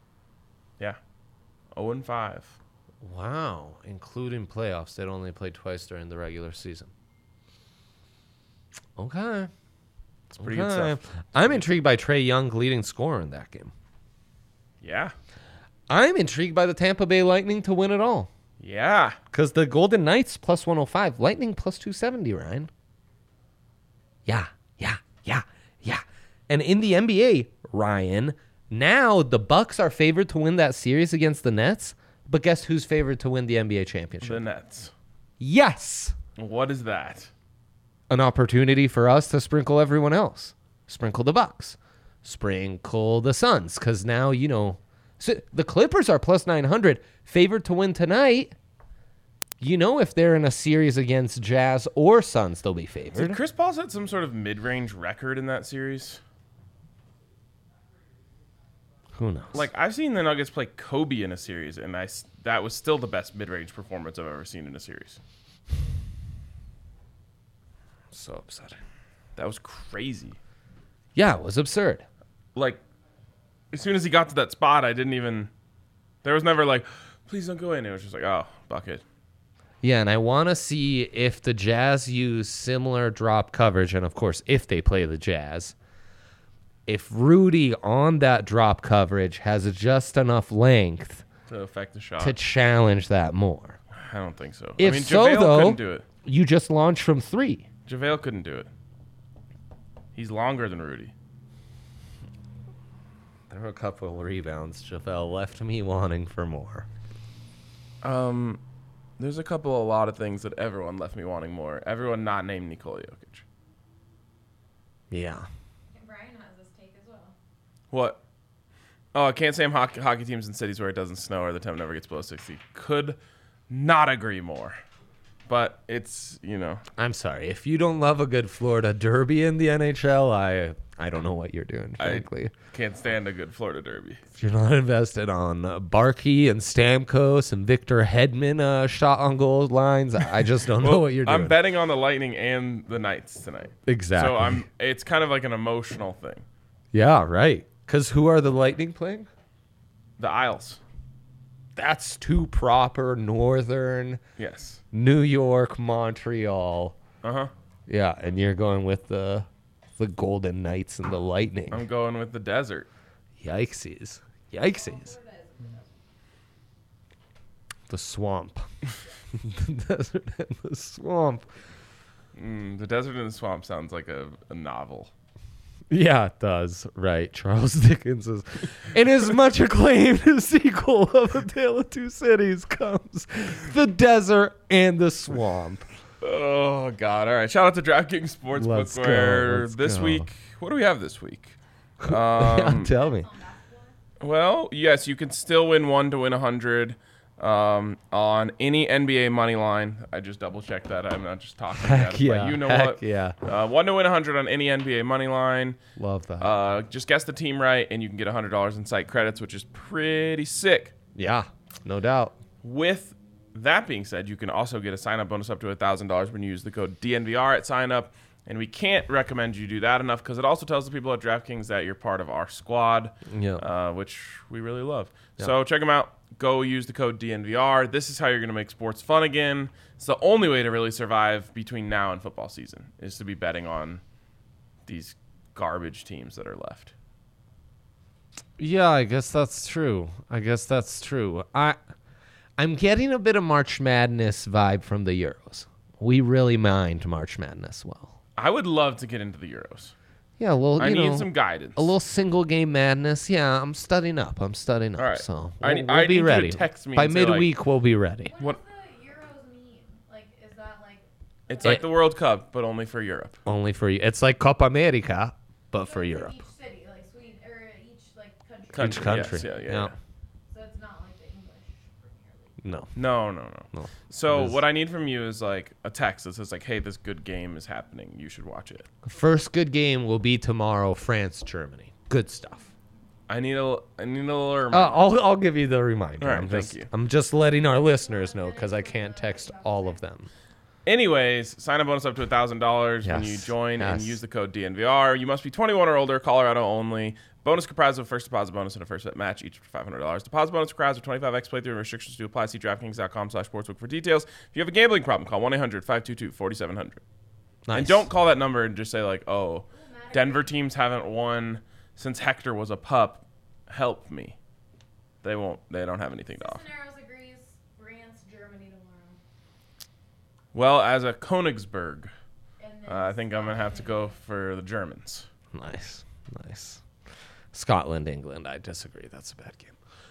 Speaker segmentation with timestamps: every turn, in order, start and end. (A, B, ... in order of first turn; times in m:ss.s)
0:01.7-0:02.6 A
0:03.0-0:06.9 B
0:09.0-0:09.5 B
0:10.4-0:13.7 B
0:10.4-0:11.6 A
0:14.8-0:15.1 A
0:15.9-0:18.3 B
0:18.6-0:19.2 A
0:19.3-0:22.7 B
0:24.3-0:34.4 B
0:34.2-0:34.9 A
0:35.4-0:36.2 B
0:36.4-0:37.3 A
0:38.1-0:48.5 B
0:49.6-0:53.4 B
0:53.2-0:56.2 A
0:59.2-0:59.7 B
0:59.5-1:05.2 A
1:08.1-1:08.8 B
1:09.4-1:10.4 A
1:11.2-1:12.0 B
1:12.6-1:12.8 A
1:13.7-1:15.5 A
1:16.2-1:19.0 A
1:19.8-1:25.8 B
1:26.9-1:31.2 B
1:31.5-1:32.4 A
1:32.2-1:33.8 B
1:33.9-1:36.1 A
1:34.8-1:37.7 B
1:37.9-1:38.7 A
1:40.2-1:41.1 A
1:43.5-1:46.9 B
1:48.0-1:48.6 A
1:49.2-1:53.4 A
1:55.1-1:55.5 B
1:55.9-1:57.4 C
1:57.9-1:58.2 A
1:59.1-2:03.2 A
2:03.7-2:04.8 A
2:05.5-2:06.8 A
2:07.0-2:12.5 B
2:12.0-2:14.2 A
2:14.3-2:21.6 B
2:20.8-2:26.4 A
2:23.9-2:24.6 B
2:26.9-2:29.3 B
2:30.2-2:30.8 A
2:31.8-2:34.2 B
2:34.4-2:34.8 A
2:34.9-2:37.0 B
2:37.2-2:37.5 A
2:37.9-2:39.5 B
2:40.0-2:41.9 B
2:41.7-2:42.9 A
2:43.4-2:45.1 B
2:44.6-2:46.0 C
2:47.9-2:48.7 B
2:49.3-2:51.5 B
2:52.4-2:55.1 A
2:55.9-3:05.9 B
3:06.2-3:12.9 A
3:08.6-3:10.3 B
3:12.0-3:13.3 B
3:12.9-3:14.0 C
3:14.2-3:25.8 A
3:21.7-3:23.4 B
3:26.0-3:26.6 B
3:26.4-3:31.0 A
3:31.2-3:32.4 B
3:32.6-3:54.0 A
3:43.3-3:43.6 B
3:54.9-3:56.9 A
3:58.6-4:01.8 B
4:02.6-4:08.2 B
4:08.4-4:09.9 A
4:10.4-4:18.3 B
4:10.8-4:11.9 A
4:15.0-4:17.5 A
4:18.3-4:21.8 C
4:21.5-4:23.4 A
4:23.5-4:26.4 B
4:25.8-4:29.6 C
4:28.7-4:29.9 A
4:28.8-4:29.9 B
4:30.5-4:32.6 C
4:32.6-4:32.9 B
4:33.0-4:38.9 A
4:33.7-4:34.6 B
4:39.0-4:42.7 B
4:43.3-4:45.0 A
4:44.7-4:50.3 B
4:46.2-4:46.9 A
4:47.8-4:50.0 C
4:50.9-5:07.0 A
4:53.0-4:54.2 B
5:07.7-5:08.1 B
5:07.7-5:14.4 A
5:09.7-5:10.6 C
5:15.2-5:16.6 A
5:16.4-5:19.2 C
5:20.5-5:22.1 A
5:22.6-5:24.2 C
5:22.9-5:25.3 A
5:25.5-5:26.8 B
5:27.5-5:29.8 B